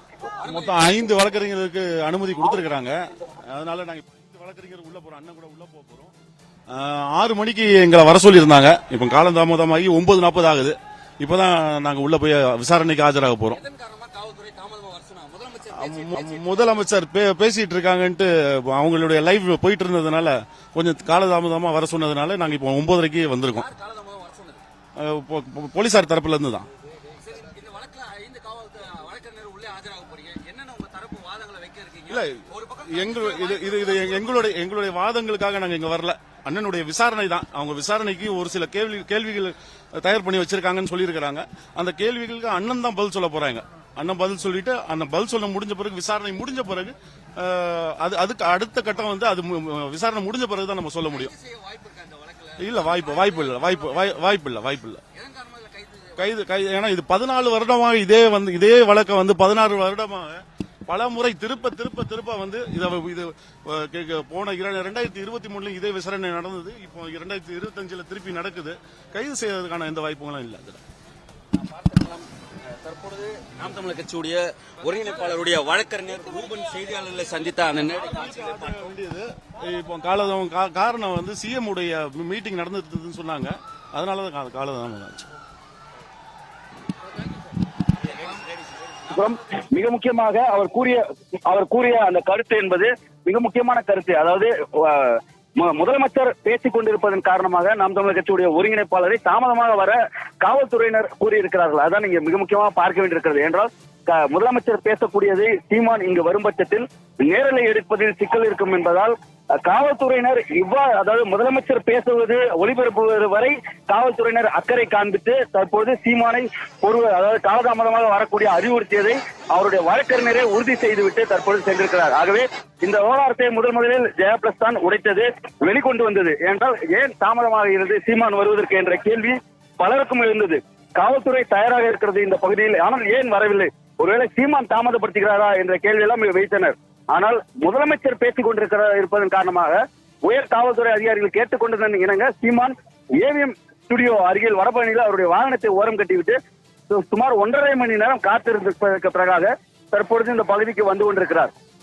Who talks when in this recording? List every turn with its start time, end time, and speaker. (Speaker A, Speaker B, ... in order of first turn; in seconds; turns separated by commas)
Speaker A: 0.4-0.8, Speaker B: 0.4-6.1, Speaker B: 6.7-13.6, Speaker A: 13.6-16.9, Speaker B: 15.7-23.7, Speaker A: 23.5-24.6, Speaker B: 25.0-26.7, Speaker A: 27.1-34.5, Speaker B: 32.1-51.3, Speaker A: 51.1-54.2, Speaker B: 52.6-55.0, Speaker A: 55.1-56.3, Speaker B: 56.2-70.8, Speaker A: 71.6-78.9, Speaker B: 77.8-85.2, Speaker A: 88.1-88.3, Speaker C: 89.1-146.4, Speaker C: 146.9-151.5